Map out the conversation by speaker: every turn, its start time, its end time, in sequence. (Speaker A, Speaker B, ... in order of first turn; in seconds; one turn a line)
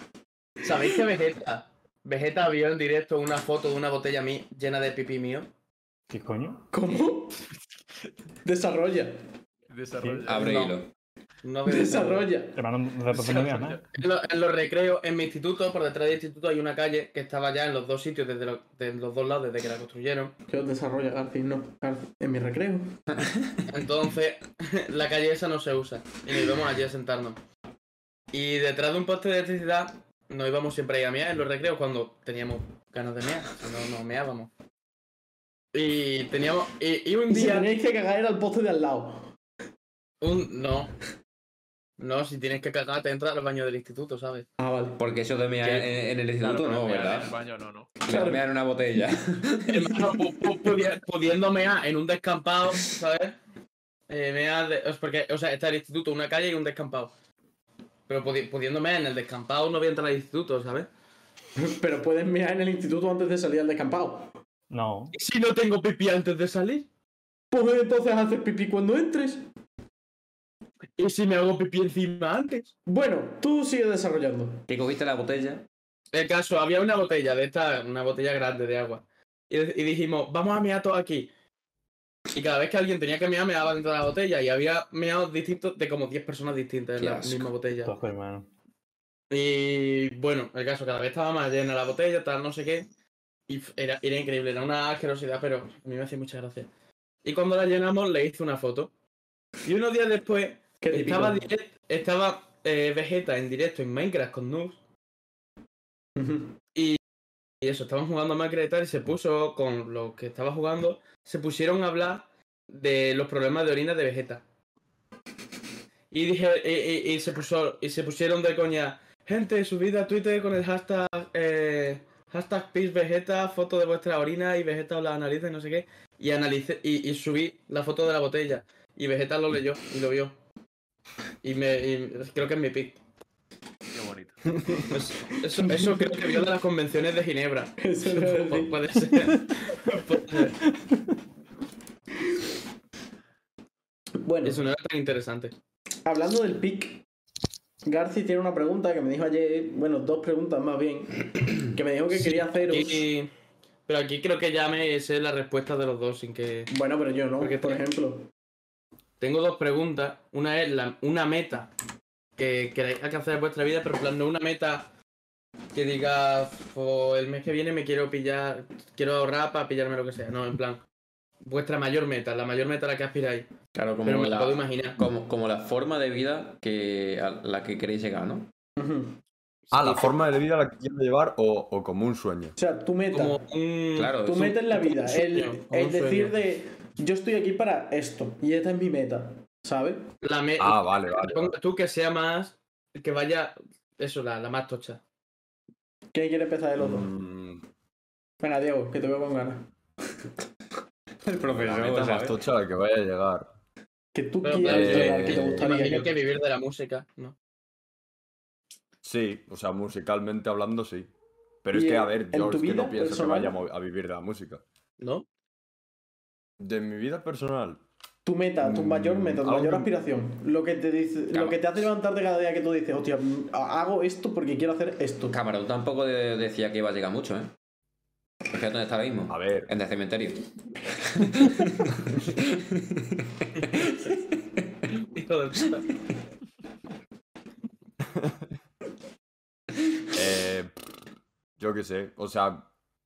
Speaker A: 0.6-5.5
Speaker B: 6.1-6.6
Speaker C: 6.7-7.4
Speaker C: 8.4-9.1
Speaker D: 9.7-10.7
Speaker B: 10.0-10.3
Speaker E: 10.2-10.9
Speaker A: 11.4-12.3
Speaker C: 11.7-12.6
Speaker B: 12.5-13.8
Speaker D: 13.3-13.8
Speaker A: 13.9-20.3
Speaker C: 20.5-22.9
Speaker E: 23.1-23.6
Speaker A: 23.7-27.4
Speaker A: 28.3-34.5
Speaker A: 35.7-37.7
Speaker C: 37.3-39.3
Speaker A: 40.2-40.9
Speaker A: 42.0-44.5
Speaker C: 44.6-45.0
Speaker E: 45.0-47.3
Speaker D: 45.6-47.9
Speaker E: 48.0-49.9
Speaker C: 48.1-48.4
Speaker A: 49.7-53.4
Speaker A: 54.1-57.1
Speaker A: 58.1-60.9
Speaker C: 61.5-64.4
Speaker B: 64.7-65.1
Speaker A: 65.1-66.9
Speaker C: 67.5-69.4
Speaker A: 71.0-72.7
Speaker C: 72.8-74.6
Speaker E: 74.7-75.6
Speaker A: 76.1-81.3
Speaker A: 82.3-87.9
Speaker E: 87.0-87.5
Speaker B: 87.8-88.5
Speaker A: 89.3-92.9
Speaker A: 93.5-96.7
Speaker A: 97.2-98.9
Speaker A: 99.6-104.8
Speaker C: 100.8-101.4
Speaker C: 106.2-106.5
Speaker A: 106.7-107.0
Speaker A: 107.6-114.4
Speaker A: 116.1-130.3
Speaker A: 131.4-133.0
Speaker D: 133.9-134.4
Speaker A: 134.9-140.6
Speaker C: 135.6-136.4
Speaker C: 137.8-138.8
Speaker C: 139.7-140.7
Speaker C: 144.2-144.6
Speaker A: 144.4-145.5
Speaker C: 146.0-147.0
Speaker C: 147.8-153.1
Speaker A: 152.2-153.3
Speaker A: 153.9-156.7
Speaker C: 156.7-158.3
Speaker A: 157.4-157.8
Speaker A: 159.2-161.7
Speaker A: 162.4-164.9
Speaker A: 165.7-170.8
Speaker A: 171.4-173.5
Speaker E: 173.7-178.5
Speaker A: 174.0-175.0
Speaker C: 178.8-179.2
Speaker F: 179.7-182.6
Speaker E: 179.7-180.1
Speaker C: 182.6-183.4
Speaker E: 183.1-183.4
Speaker A: 183.3-184.2
Speaker E: 183.9-184.9
Speaker C: 184.2-190.1
Speaker A: 185.0-186.3
Speaker A: 190.2-195.0
Speaker F: 190.6-191.5
Speaker C: 196.1-197.1
Speaker F: 196.8-197.6
Speaker C: 198.4-199.7
Speaker E: 201.2-202.4
Speaker F: 201.5-203.5
Speaker C: 204.1-206.1
Speaker A: 204.4-207.3
Speaker F: 204.6-205.7
Speaker F: 209.0-211.1
Speaker F: 211.6-214.6
Speaker C: 211.7-213.6
Speaker A: 215.0-215.2
Speaker F: 216.6-217.8
Speaker C: 218.2-225.3
Speaker F: 218.6-219.9
Speaker E: 221.3-221.8
Speaker E: 225.3-227.5
Speaker E: 228.5-230.4
Speaker F: 229.3-229.7
Speaker E: 230.9-234.7
Speaker A: 234.9-235.8
Speaker F: 240.1-240.7
Speaker F: 241.6-242.7